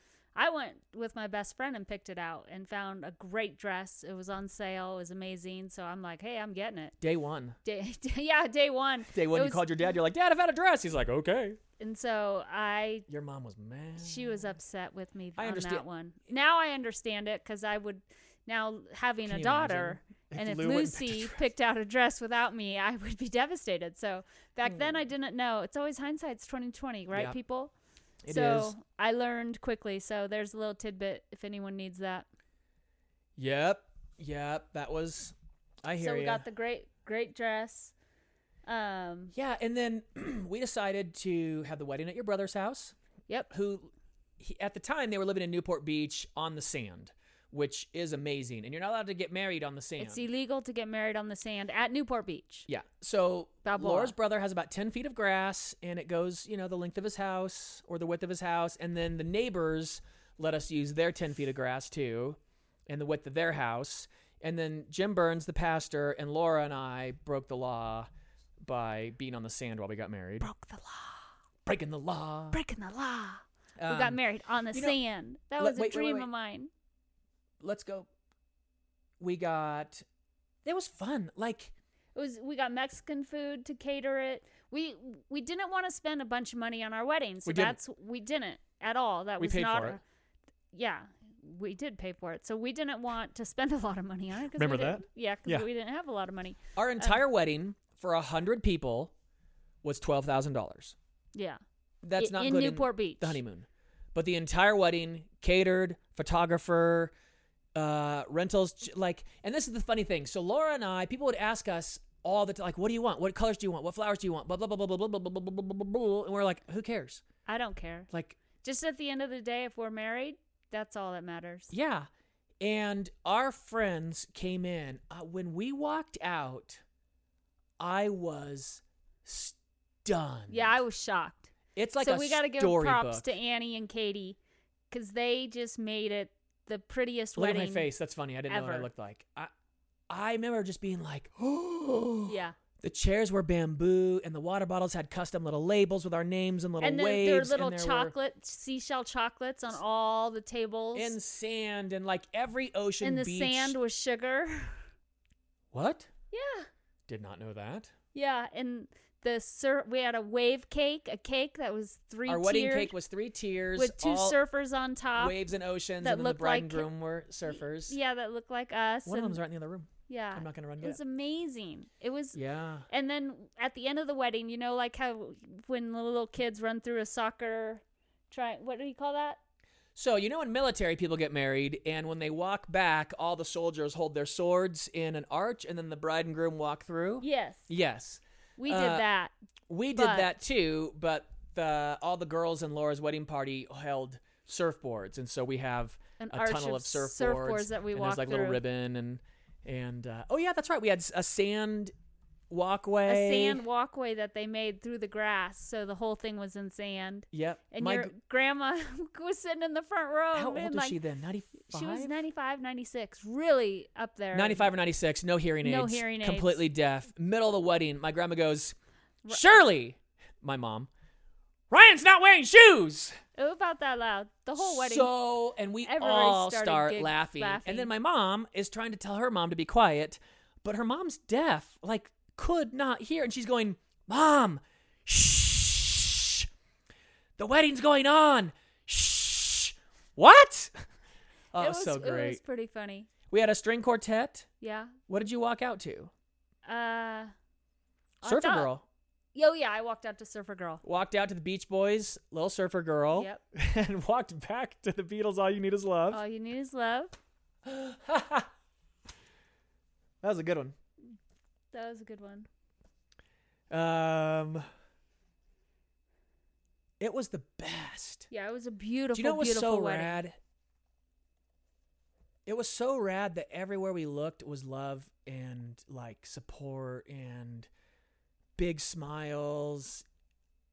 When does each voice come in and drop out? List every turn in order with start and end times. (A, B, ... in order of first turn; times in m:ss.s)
0:00.3-0:06.9 A
0:07.0-0:07.6 B
0:07.6-0:09.9 A
0:09.1-0:11.6 B
0:11.8-0:13.1 A
0:13.1-0:14.5 B
0:14.0-0:27.7 A
0:15.4-0:15.8 B
0:19.2-0:21.5 B
0:24.7-0:25.0 B
0:28.2-0:28.7 B
0:28.3-0:32.2 A
0:33.4-0:36.4 B
0:36.0-0:37.9 A
0:38.6-0:39.3 A
0:39.3-0:42.9 B
0:43.5-0:50.2 B
0:50.0-0:52.7 A
0:52.7-1:08.1 B
0:53.6-0:54.1 A
1:08.6-1:10.5 B
1:10.4-1:11.2 A
1:11.6-1:12.6 B
1:12.5-1:16.7 A
1:13.8-1:14.2 B
1:14.7-1:15.0 B
1:15.6-1:16.3 B
1:17.6-1:18.1 B
1:19.2-1:20.0 B
1:20.6-1:21.7 B
1:22.1-1:30.0 A
1:27.4-1:27.8 B
1:29.4-1:30.0 B
1:30.7-1:37.2 A
1:34.5-1:35.7 B
1:36.8-1:39.1 B
1:39.8-1:41.0 B
1:41.3-1:41.6 A
1:42.0-1:47.1 B
1:42.2-1:43.4 A
1:47.7-1:57.2 B
1:57.4-1:58.1 A
1:58.1-1:58.4 B
1:58.6-2:01.7 A
2:01.7-2:02.1 B
2:02.6-2:06.8 B
2:07.8-2:10.7 B
2:10.5-2:14.4 A
2:11.7-2:13.3 B
2:14.9-2:17.9 A
2:17.4-2:19.5 B
2:18.5-2:18.9 A
2:20.1-2:28.1 B
2:22.2-2:22.6 A
2:26.8-2:31.2 A
2:30.9-2:33.8 B
2:33.0-2:34.8 A
2:35.7-2:36.1 B
2:36.3-2:36.7 A
2:37.1-2:37.9 B
2:38.1-2:42.9 A
2:42.3-2:44.4 B
2:43.8-2:45.4 A
2:45.2-2:48.0 B
2:46.0-2:46.9 A
2:47.5-2:49.4 A
2:49.0-2:51.0 B
2:50.1-2:59.4 A
2:52.3-2:52.9 B
2:59.9-3:09.0 B
3:07.2-3:07.7 A
3:08.6-3:09.3 A
3:09.7-3:21.9 B
3:09.9-3:10.3 A
3:16.2-3:18.6 A
3:22.5-3:23.6 B
3:23.0-3:31.0 A
3:27.3-3:28.1 B
3:30.3-3:32.1 B
3:31.7-3:34.7 A
3:34.3-3:38.8 B
3:35.6-3:36.6 A
3:39.3-3:40.9 B
3:41.7-3:43.2 B
3:43.4-3:45.1 A
3:44.6-3:56.5 B
3:45.8-3:47.9 A
3:57.4-4:00.8 B
4:01.5-4:02.4 B
4:01.6-4:03.1 A
4:03.3-4:04.5 B
4:04.6-4:05.0 A
4:05.1-4:06.1 B
4:06.6-4:07.3 A
4:08.2-4:08.7 A
4:08.2-4:08.8 B
4:09.3-4:10.8 A
4:10.8-4:16.2 B
4:13.1-4:13.4 A
4:16.1-4:17.1 A
4:17.6-4:18.5 B
4:20.2-4:20.7 B
4:21.7-4:22.5 A
4:23.7-4:24.6 B
4:27.0-4:28.3 B
4:28.3-4:30.2 A
4:29.1-4:30.4 B
4:32.4-4:37.7 B
4:38.6-4:40.0 B